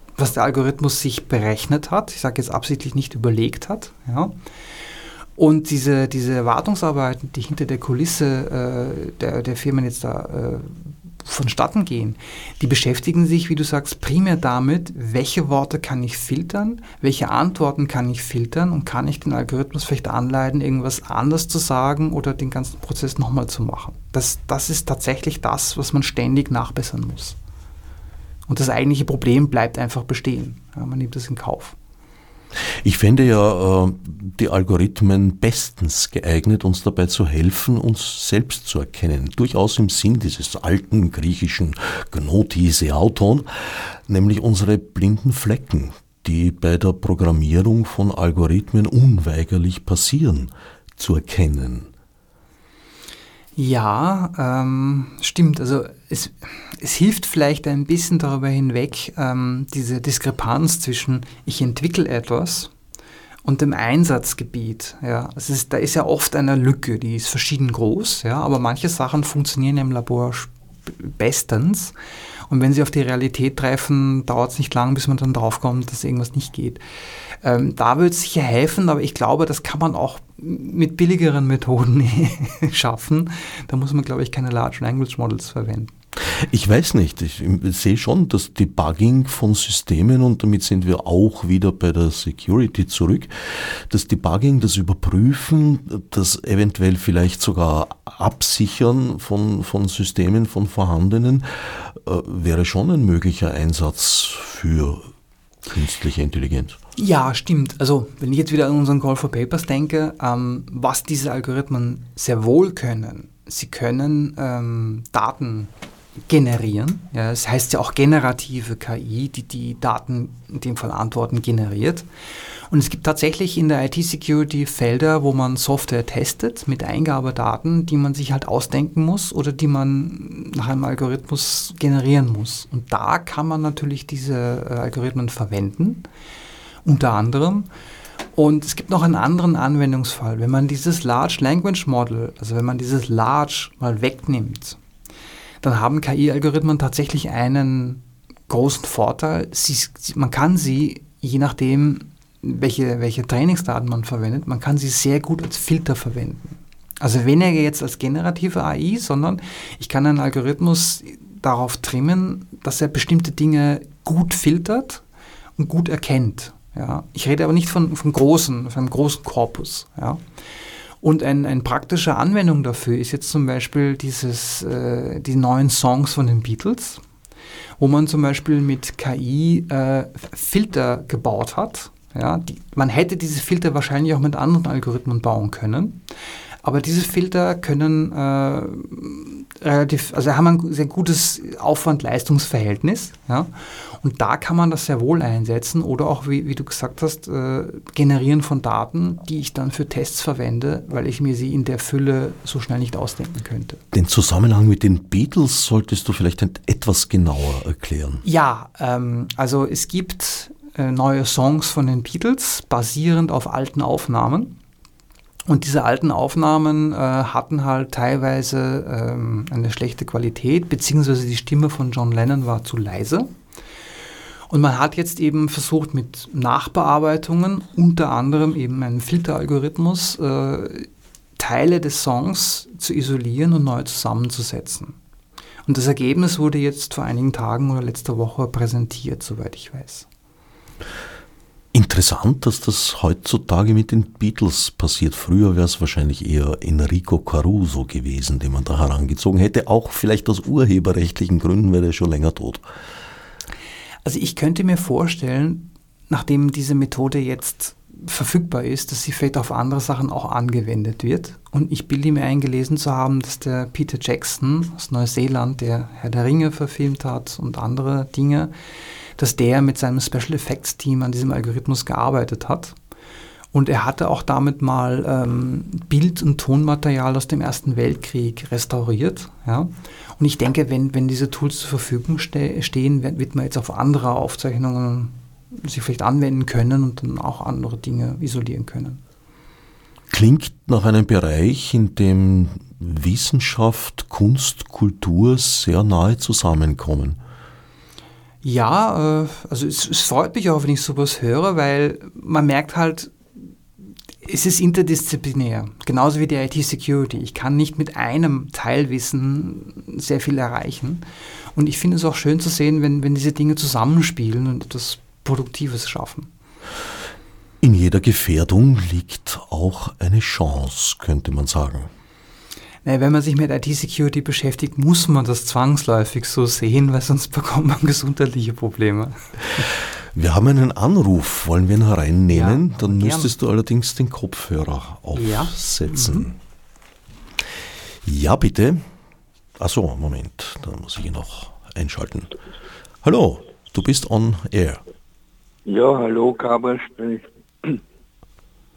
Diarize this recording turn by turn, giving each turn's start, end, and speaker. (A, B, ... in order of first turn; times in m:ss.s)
0:00.2-0:04.3 A
0:05.4-0:27.4 A
0:28.5-0:31.8 A
0:32.6-0:51.9 B
0:53.6-1:02.7 A
1:03.4-1:11.9 A
1:12.5-1:16.8 A
1:17.4-1:25.9 A
1:26.2-1:45.1 B
1:45.7-1:46.8 B
1:47.0-1:55.7 A
1:56.3-2:02.1 A
2:02.7-2:16.1 A
2:16.8-2:17.7 A
2:18.4-2:24.8 A
2:25.6-2:45.0 A
2:45.6-2:50.2 A
2:51.0-2:57.0 A
2:57.8-3:06.0 A
3:06.6-3:23.8 A
3:23.9-3:28.2 B
3:28.2-3:34.6 A
3:35.5-3:43.3 A
3:44.5-3:55.0 A
3:55.7-4:00.1 A
4:01.7-4:12.7 B
4:14.0-4:28.5 A
4:29.2-4:32.8 A
4:33.5-4:49.0 A
4:50.1-4:57.2 B
4:58.4-5:03.1 A
5:04.2-5:11.0 A
5:11.6-5:16.3 A
5:17.6-5:21.9 B
5:22.8-5:29.7 A
5:30.1-5:36.4 B
5:32.3-5:33.3 A
5:35.2-5:36.3 A
5:38.0-5:38.8 B
5:39.6-5:42.3 B
5:43.0-5:44.8 B
5:45.7-5:47.8 C